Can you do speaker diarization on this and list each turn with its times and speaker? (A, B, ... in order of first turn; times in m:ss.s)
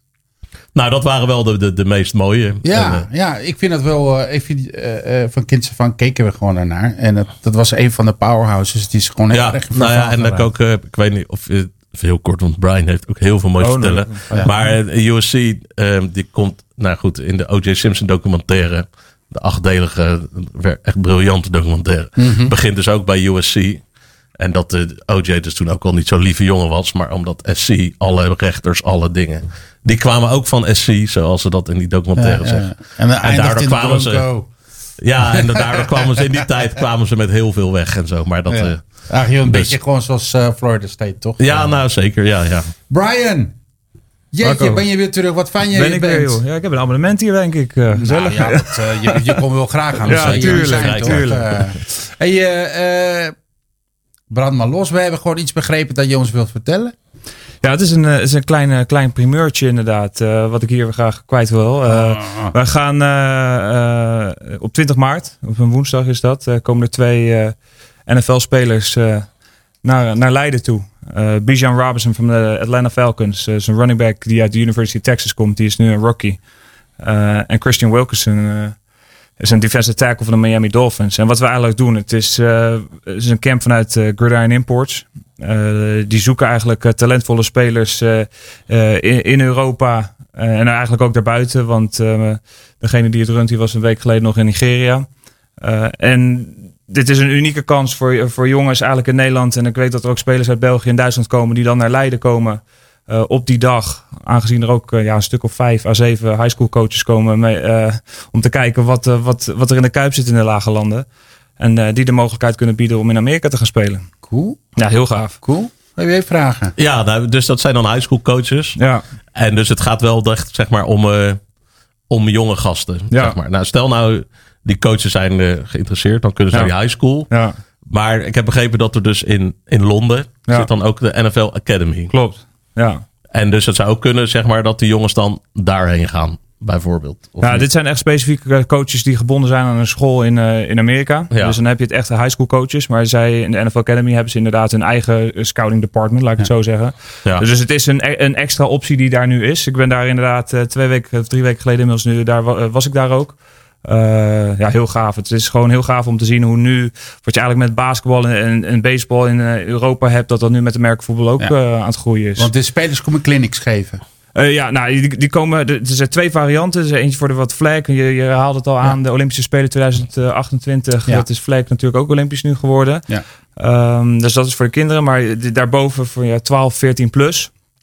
0:00.7-0:03.1 A
0:02.6-0:10.4 B
0:09.3-0:23.8 A
0:13.6-0:14.7 C
0:22.2-0:22.5 B
0:24.4-0:34.3 A
0:32.2-0:34.5 B
0:35.0-0:38.8 A
0:35.4-0:36.2 B
0:38.5-0:41.8 B
0:39.4-0:39.7 A
0:41.4-0:42.7 A
0:42.9-0:43.5 B
0:44.3-0:46.4 B
0:44.4-0:44.8 C
0:45.7-0:49.4 C
0:48.0-0:53.3 B
0:50.1-0:51.5 C
0:50.1-0:51.6 A
0:54.3-0:56.9 B
0:57.6-1:16.4 C
1:01.9-1:02.5 B
1:17.0-1:18.8 C
1:19.4-1:51.1 C
1:51.6-1:54.0 C
1:54.2-1:54.7 B
1:54.8-1:55.4 C
1:55.4-1:56.7 B
1:56.8-1:58.8 A
1:59.4-2:01.4 A
2:02.1-2:07.3 A
2:03.1-2:03.4 C
2:06.5-2:07.6 C
2:07.8-2:12.1 A
2:12.1-2:13.0 C
2:13.3-2:17.6 A
2:17.4-2:42.5 C
2:21.3-2:21.6 A
2:42.4-2:44.0 B
2:44.3-2:57.5 C